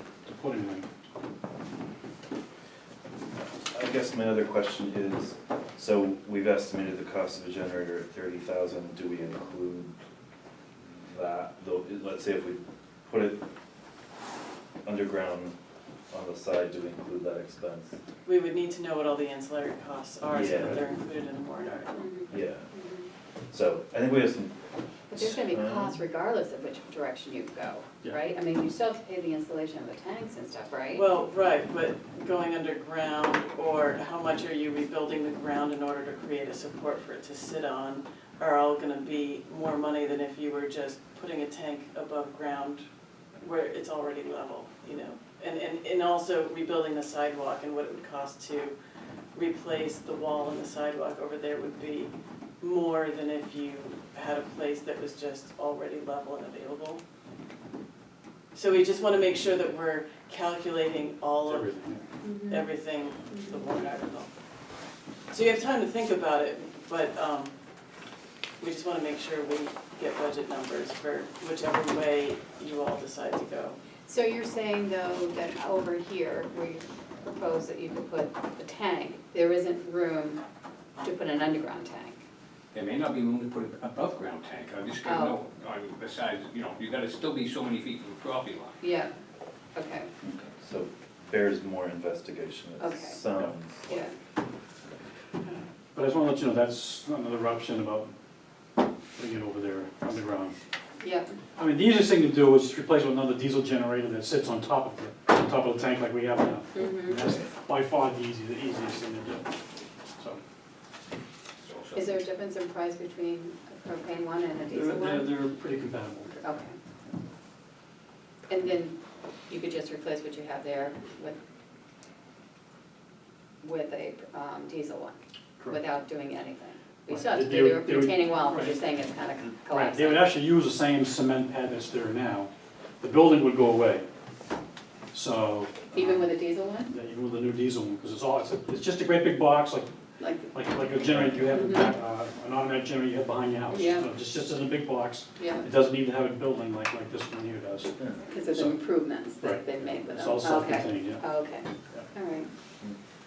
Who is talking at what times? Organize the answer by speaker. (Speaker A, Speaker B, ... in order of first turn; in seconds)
Speaker A: 0.2-0.8, 20.3-21.0, 61.4-62.0, 95.9-98.1, 99.2-100.5, 101.6-109.5, 114.7-116.4, 127.0-128.8, 129.7-134.1, 135.1-136.3, 136.9-139.9, 140.5-148.0, 148.5-148.8, 149.4-151.2
Speaker B: 3.5-9.9, 11.0-13.4, 14.8-15.5, 16.1-18.0, 20.3-20.8, 22.3-22.7, 23.5-24.6, 25.1-26.0, 90.2-94.0
Speaker C: 18.2-22.1, 30.9-42.8, 43.4-48.8, 49.3-57.0, 58.5-61.9, 62.5-64.3, 65.3-67.5, 68.6-73.8
Speaker D: 21.9-23.1, 25.1-31.1, 62.2-62.7, 63.3-63.6, 74.0-80.4, 81.0-82.2, 85.0-85.4, 88.8-89.1, 89.7-90.1, 92.8-93.2, 93.9-94.1, 101.0-101.3, 106.7-107.2, 111.9-115.4, 116.4-116.8, 118.5-119.0, 119.5-121.4, 123.6-130.3, 135.9-136.9, 140.2-140.5, 141.5-141.9, 143.7-144.1, 145.4-145.7, 148.2-152.5
Speaker E: 82.7-88.8, 111.6-112.3